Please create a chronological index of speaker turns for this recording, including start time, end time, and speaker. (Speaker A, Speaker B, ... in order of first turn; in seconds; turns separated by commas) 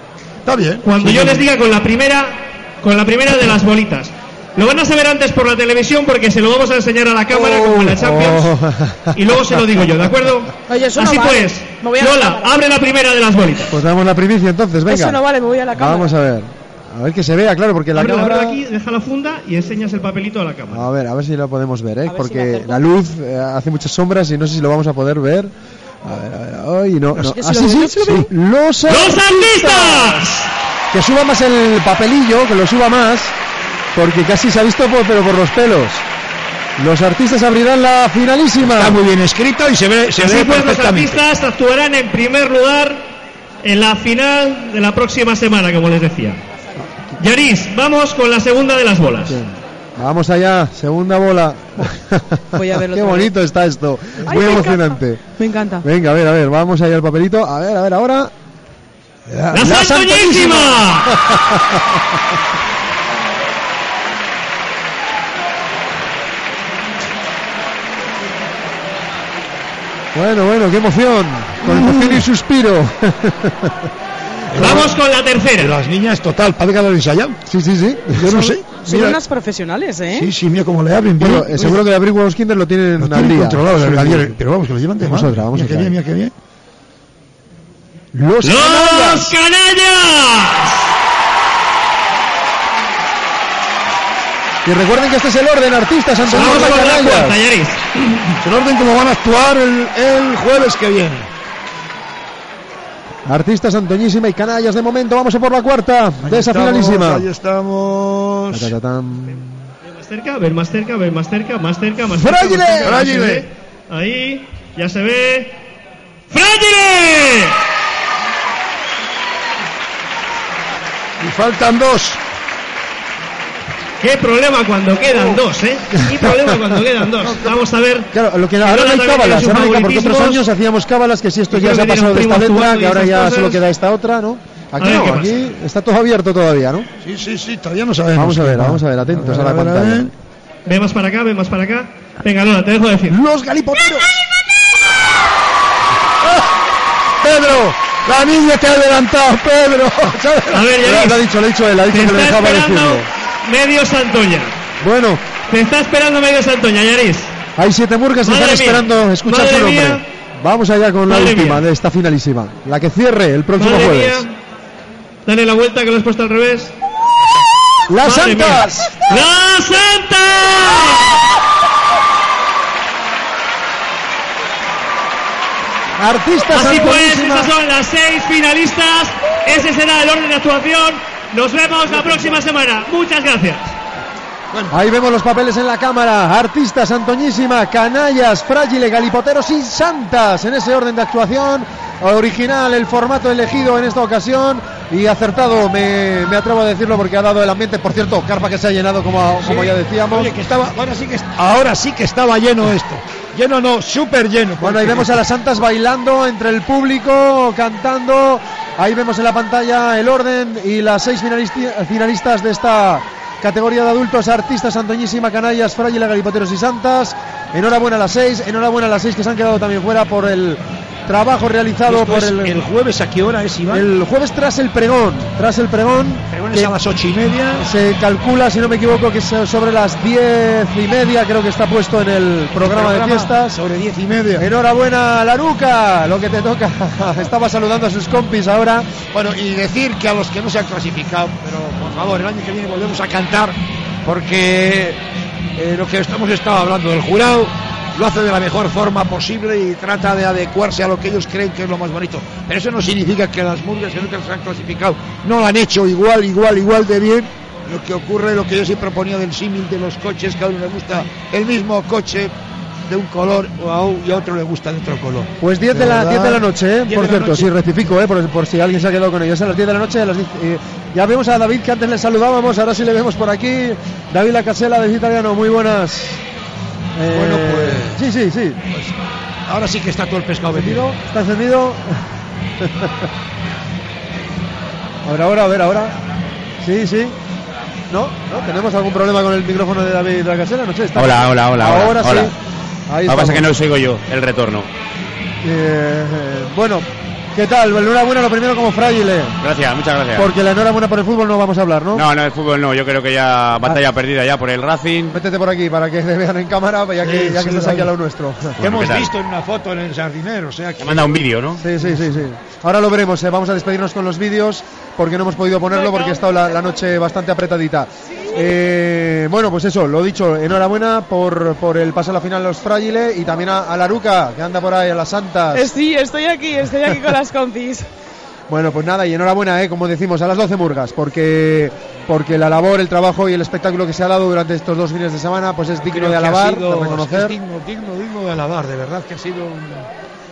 Speaker A: 0.4-1.4, Speaker B: 0.8-8.5, Speaker C: 7.3-9.2, Speaker B: 9.1-13.8, Speaker D: 10.7-12.5, Speaker C: 13.7-15.2, Speaker D: 14.9-16.1, Speaker C: 15.7-18.6, Speaker B: 17.9-20.9, Speaker C: 20.7-25.5, Speaker D: 22.1-22.8, Speaker C: 26.0-30.2, Speaker D: 27.2-28.2, Speaker B: 28.9-30.5, Speaker C: 30.9-33.3, Speaker C: 33.9-36.0, Speaker C: 36.8-39.0, Speaker A: 38.6-41.2, Speaker B: 40.2-43.0, Speaker B: 43.6-46.4, Speaker B: 47.2-49.4, Speaker C: 49.3-55.2, Speaker D: 52.5-53.3, Speaker D: 54.2-55.8, Speaker C: 55.8-58.3, Speaker A: 59.3-59.7, Speaker B: 59.5-61.2, Speaker C: 59.5-62.0, Speaker C: 70.1-73.9, Speaker A: 74.5-74.9, Speaker B: 74.5-75.8, Speaker A: 75.6-77.4, Speaker C: 77.5-78.6, Speaker A: 78.1-79.2, Speaker D: 78.7-80.3, Speaker A: 80.1-81.8, Speaker C: 81.2-84.3, Speaker A: 83.0-86.3, Speaker C: 85.0-85.9, Speaker C: 88.1-89.3, Speaker B: 88.4-90.8, Speaker C: 94.6-97.4, Speaker A: 96.3-96.9, Speaker B: 96.3-98.3, Speaker A: 98.4-101.3, Speaker C: 103.2-107.2, Speaker A: 106.2-108.7, Speaker C: 108.5-109.6, Speaker B: 109.9-115.5, Speaker C: 112.1-113.0, Speaker A: 112.8-113.5, Speaker B: 116.3-117.6, Speaker A: 121.2-122.2, Speaker B: 124.0-128.1, Speaker C: 125.9-126.6, Speaker A: 127.2-127.5, Speaker C: 128.1-136.9, Speaker B: 128.6-130.4, Speaker B: 131.5-133.6, Speaker B: 134.8-135.4, Speaker A: 137.0-140.1, Speaker C: 138.1-140.1, Speaker B: 140.7-143.2, Speaker A: 143.2-144.0, Speaker C: 143.3-144.0, Speaker A: 147.2-150.7, Speaker B: 150.5-151.2, Speaker C: 150.8-153.1, Speaker B: 151.9-154.5, Speaker C: 154.8-155.2, Speaker B: 155.5-157.3, Speaker C: 157.6-164.2, Speaker B: 158.2-160.0, Speaker B: 161.1-161.6, Speaker B: 163.6-164.3, Speaker B: 165.2-166.7, Speaker C: 167.9-169.1, Speaker B: 168.0-171.1, Speaker C: 176.0-177.5, Speaker B: 176.5-183.6, Speaker C: 184.7-200.3, Speaker A: 199.4-205.1, Speaker C: 204.6-222.6, Speaker A: 221.9-223.9, Speaker C: 223.7-226.7, Speaker A: 226.3-227.7, Speaker C: 227.5-233.6, Speaker A: 232.6-234.4, Speaker C: 234.3-238.9, Speaker A: 239.1-245.0, Speaker A: 245.6-262.3, Speaker A: 262.9-267.5, Speaker C: 265.4-276.2, Speaker C: 276.9-278.6, Speaker A: 277.1-278.0, Speaker A: 279.5-280.8, Speaker C: 280.5-282.0, Speaker C: 282.6-283.1, Speaker C: 285.0-286.0, Speaker C: 286.6-287.1, Speaker C: 287.9-292.3, Speaker E: 290.9-292.3, Speaker C: 292.9-293.5, Speaker E: 293.1-294.7, Speaker C: 295.4-299.4, Speaker E: 299.4-300.3, Speaker C: 300.1-302.0, Speaker E: 301.9-305.1, Speaker C: 305.1-308.6, Speaker A: 307.0-307.9, Speaker A: 308.6-311.2, Speaker E: 308.6-309.1, Speaker E: 310.8-311.6, Speaker C: 311.6-325.7, Speaker A: 311.8-312.2, Speaker D: 325.5-327.9, Speaker C: 328.5-337.4, Speaker A: 335.9-339.9